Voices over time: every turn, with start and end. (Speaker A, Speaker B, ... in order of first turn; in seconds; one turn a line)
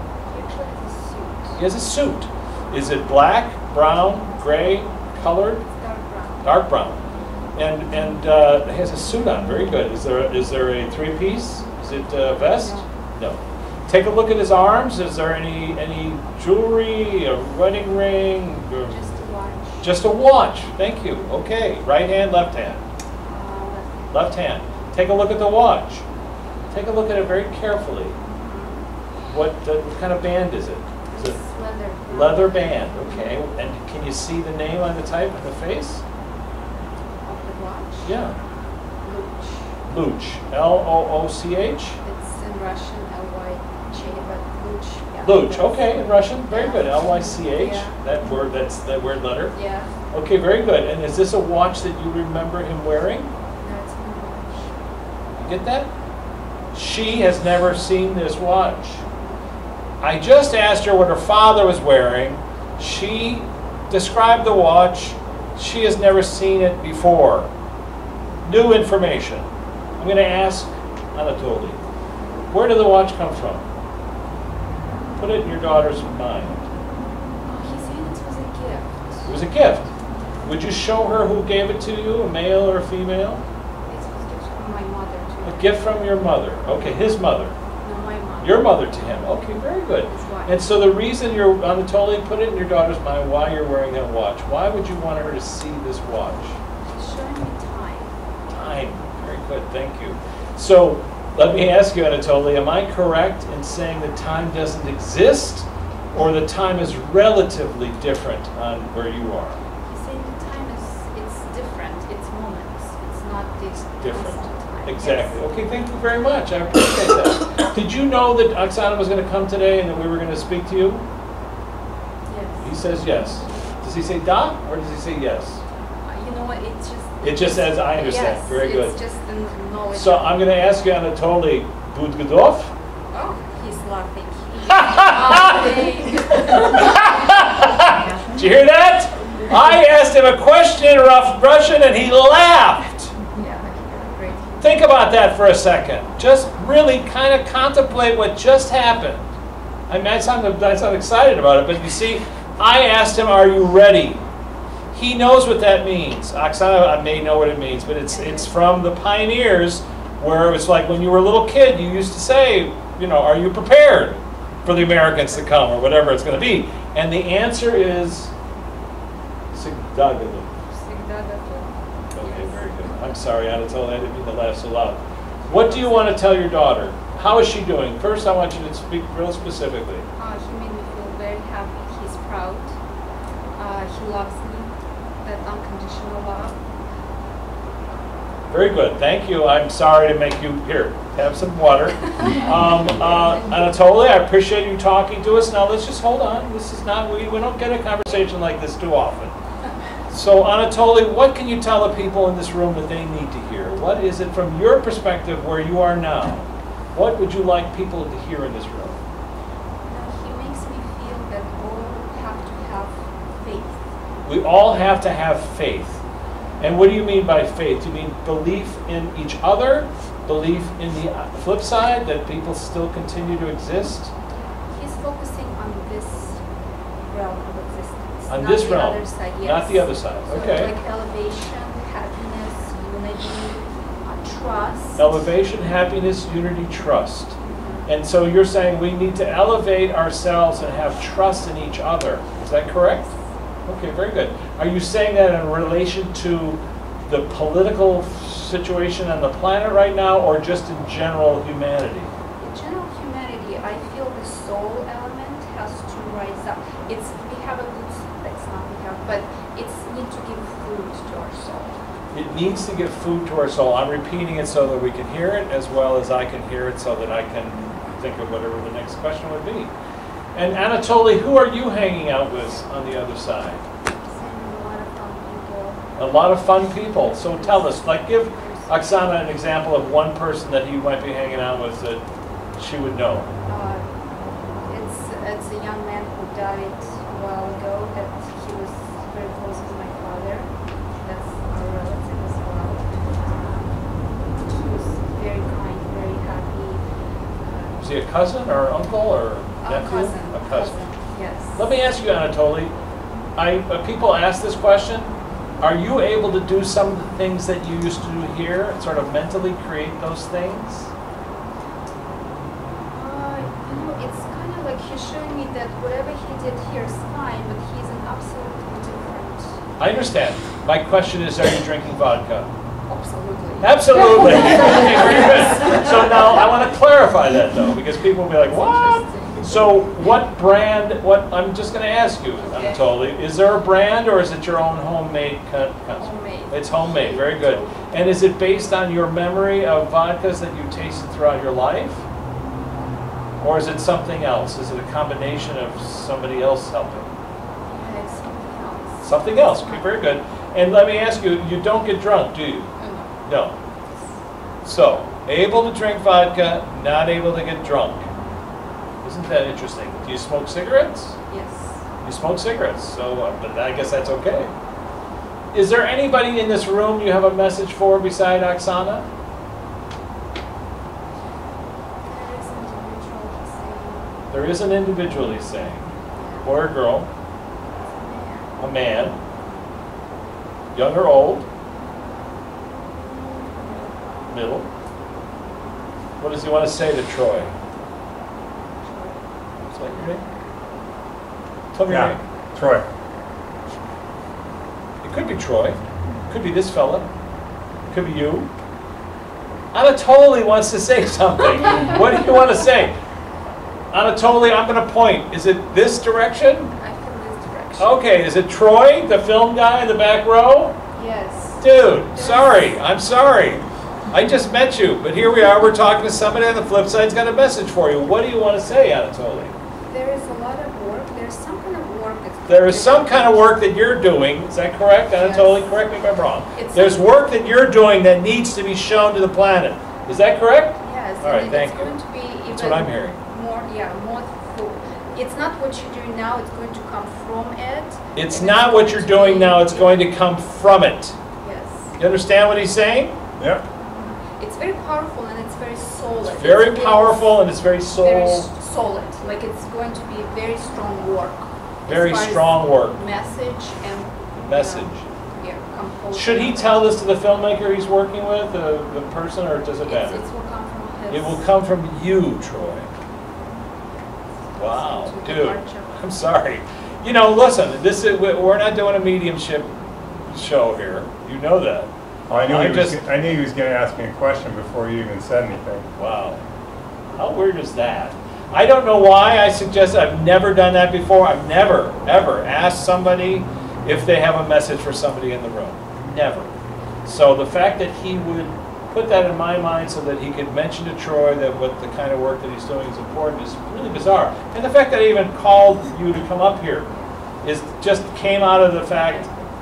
Speaker A: 0.3-1.6
Speaker B: 1.6-5.6
Speaker A: 5.6-6.6
Speaker B: 6.4-7.0
Speaker B: 7.5-18.9
Speaker A: 12.3-12.8
Speaker A: 18.9-19.9
Speaker B: 19.8-22.8
Speaker A: 23.2-24.2
Speaker B: 24.1-26.0
Speaker B: 26.7-28.2
Speaker A: 28.2-28.9
Speaker B: 29.3-31.4
Speaker A: 31.1-33.4
Speaker B: 32.1-36.0
Speaker A: 37.2-38.2
Speaker B: 38.0-38.3
Speaker A: 39.0-39.7
Speaker B: 39.9-42.0
Speaker A: 42.0-48.0
Speaker B: 45.2-49.5
Speaker A: 49.5-49.9
Speaker B: 50.1-53.3
Speaker A: 53.6-54.7
Speaker B: 55.4-55.9
Speaker B: 56.7-59.0
Speaker B: 60.0-67.5
Speaker B: 68.4-69.5
Speaker B: 70.0-71.8
Speaker B: 72.5-73.7
Speaker B: 75.2-76.7
Speaker A: 77.5-79.3
Speaker B: 79.3-79.9
Speaker B: 80.5-83.4
Speaker A: 83.9-85.8
Speaker B: 85.4-87.5
Speaker A: 87.8-88.7
Speaker B: 88.4-96.6
Speaker A: 90.1-90.6
Speaker A: 97.0-98.1
Speaker B: 98.5-109.6
Speaker A: 109.8-115.5
Speaker B: 114.0-121.0
Speaker A: 122.3-123.1
Speaker B: 122.6-125.6
Speaker A: 126.0-130.5
Speaker B: 127.2-129.0
Speaker B: 129.9-132.7
Speaker A: 133.1-137.4
Speaker B: 134.7-143.1
Speaker A: 143.3-144.7
Speaker B: 144.6-149.3
Speaker B: 149.9-154.2
Speaker B: 154.9-168.3
Speaker A: 158.1-158.6
Speaker A: 165.1-165.4
Speaker B: 169.5-170.5
Speaker A: 170.7-173.0
Speaker B: 172.1-180.1
Speaker A: 175.5-176.2
Speaker A: 180.2-182.7
Speaker A: 183.5-184.7
Speaker A: 185.2-186.6
Speaker B: 188.5-199.3
Speaker A: 192.2-193.6
Speaker B: 200.1-209.0
Speaker A: 209.9-213.9
Speaker B: 214.2-216.0
Speaker B: 216.6-224.1
Speaker A: 224.7-226.4
Speaker A: 227.1-235.2
Speaker B: 228.3-230.7
Speaker B: 235.0-243.1
Speaker A: 237.4-237.9
Speaker B: 243.7-252.1
Speaker A: 252.4-261.8
Speaker B: 262.1-269.7
Speaker B: 270.3-273.6
Speaker A: 274.0-275.8
Speaker B: 276.0-282.0
Speaker A: 277.3-279.2
Speaker B: 282.6-283.3
Speaker A: 283.4-283.9
Speaker A: 284.7-290.5
Speaker A: 291.0-293.8
Speaker A: 294.4-296.8
Speaker A: 297.4-297.8
Speaker B: 297.8-300.8
Speaker A: 299.6-301.7
Speaker B: 301.6-302.7
Speaker B: 303.4-310.9
Speaker A: 312.9-319.6
Speaker B: 319.8-322.5
Speaker A: 322.9-326.6
Speaker B: 323.6-342.1
Speaker A: 328.3-329.7
Speaker A: 332.4-332.9
Speaker A: 335.9-338.1
Speaker B: 343.4-347.1
Speaker A: 347.7-350.1
Speaker B: 349.0-352.7
Speaker A: 352.8-353.1
Speaker B: 353.2-353.5
Speaker A: 353.9-354.2
Speaker B: 354.6-358.1
Speaker B: 359.0-361.2
Speaker A: 361.3-361.9
Speaker B: 362.0-364.5
Speaker B: 365.5-369.1
Speaker A: 372.0-374.2
Speaker B: 374.3-377.1
Speaker A: 376.1-376.6
Speaker A: 377.8-378.5
Speaker B: 378.6-379.2
Speaker B: 380.7-381.5
Speaker A: 383.6-383.9
Speaker B: 384.3-384.7
Speaker B: 386.2-387.5
Speaker A: 388.8-389.2
Speaker B: 389.7-390.2
Speaker A: 389.8-390.5
Speaker B: 391.7-392.2
Speaker C: 391.9-392.9
Speaker B: 395.0-397.1
Speaker B: 397.9-398.5
Speaker B: 399.7-403.0
Speaker A: 401.6-402.4
Speaker B: 403.9-406.7
Speaker A: 406.8-407.9
Speaker B: 407.8-410.8
Speaker A: 410.9-412.8
Speaker B: 411.6-419.6
Speaker A: 419.9-423.6
Speaker B: 422.5-431.9
Speaker A: 425.1-425.7
Speaker A: 426.5-427.1
Speaker A: 430.8-440.1
Speaker B: 432.5-433.2
Speaker B: 438.1-441.2
Speaker A: 441.4-441.9
Speaker B: 442.0-443.1
Speaker A: 444.0-447.4
Speaker B: 446.2-448.5
Speaker A: 448.0-456.9
Speaker B: 451.9-453.0
Speaker B: 454.4-455.0
Speaker B: 456.1-460.2
Speaker A: 459.8-461.4
Speaker B: 461.1-462.9
Speaker A: 464.4-466.0
Speaker B: 464.6-469.7
Speaker B: 470.3-471.9
Speaker C: 472.3-475.9
Speaker B: 472.4-473.0
Speaker B: 475.9-476.4
Speaker B: 477.1-486.5
Speaker B: 487.0-496.9
Speaker B: 497.4-499.3
Speaker A: 498.9-499.3